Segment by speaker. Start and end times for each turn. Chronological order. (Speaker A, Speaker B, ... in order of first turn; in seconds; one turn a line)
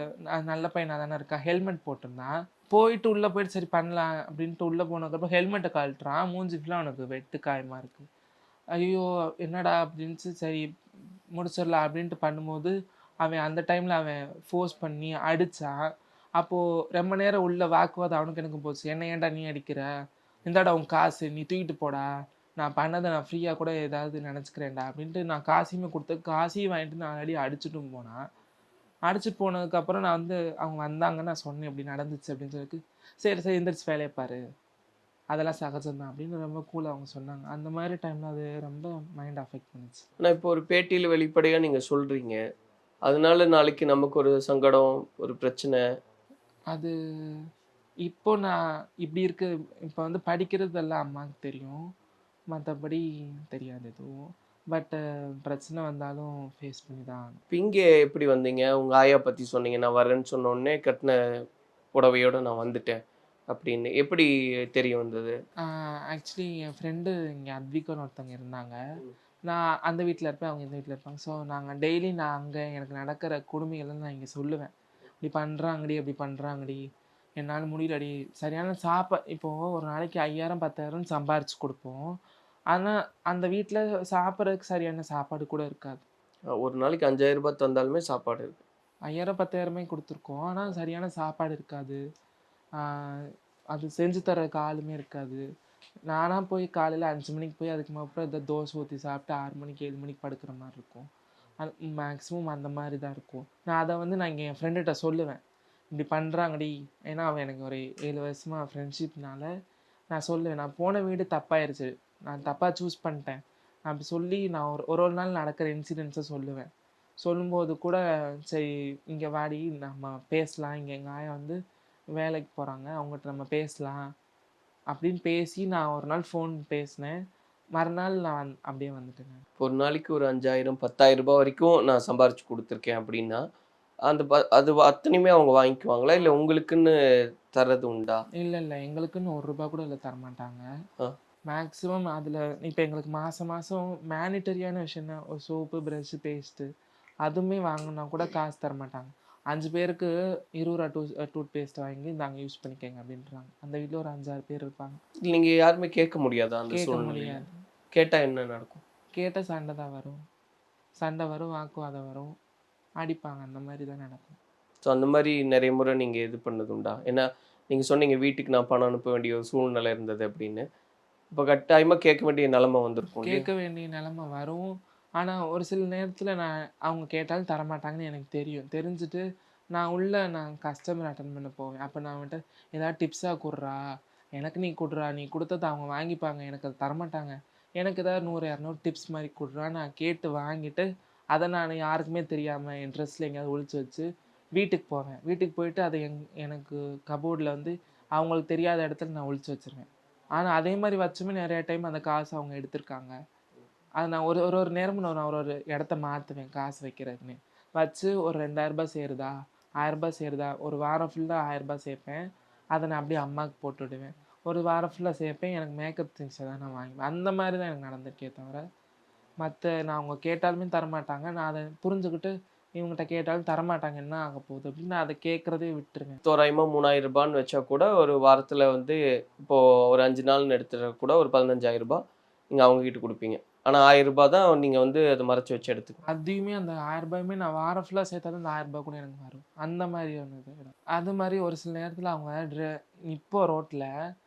Speaker A: 0.3-8.1
Speaker A: 8.8-10.7
Speaker A: 11.3-15.8
Speaker A: 16.4-19.9
Speaker A: 20.5-28.2
Speaker A: 29.1-34.4
Speaker A: 35.3-40.1
Speaker B: 40.2-42.4
Speaker B: 43.0-45.8
Speaker A: 48.0-51.8
Speaker A: 52.5-57.4
Speaker B: 57.5-61.2
Speaker B: 61.9-63.0
Speaker B: 63.5-65.3
Speaker A: 65.6-68.8
Speaker A: 69.5-76.8
Speaker A: 77.4-82.2
Speaker A: 82.7-86.0
Speaker B: 86.6-88.6
Speaker A: 89.1-92.0
Speaker A: 92.8-95.4
Speaker A: 96.1-101.1
Speaker A: 101.6-105.4
Speaker A: 106.0-109.5
Speaker A: 110.1-116.7
Speaker A: 117.2-121.6
Speaker A: 122.2-124.1
Speaker A: 124.9-127.2
Speaker A: 127.8-129.4
Speaker B: 129.6-133.4
Speaker B: 134.1-136.9
Speaker B: 137.5-138.2
Speaker A: 138.4-140.7
Speaker A: 141.5-146.7
Speaker A: 147.2-155.0
Speaker B: 155.3-158.8
Speaker A: 156.7-157.5
Speaker A: 159.1-160.2
Speaker A: 161.0-162.3
Speaker A: 163.0-164.4
Speaker B: 164.8-170.7
Speaker B: 171.3-173.5
Speaker A: 173.2-183.8
Speaker A: 184.4-203.2
Speaker A: 204.0-212.2
Speaker A: 212.8-218.6
Speaker A: 219.4-226.2
Speaker B: 226.2-232.0
Speaker B: 232.5-236.0
Speaker A: 236.1-243.9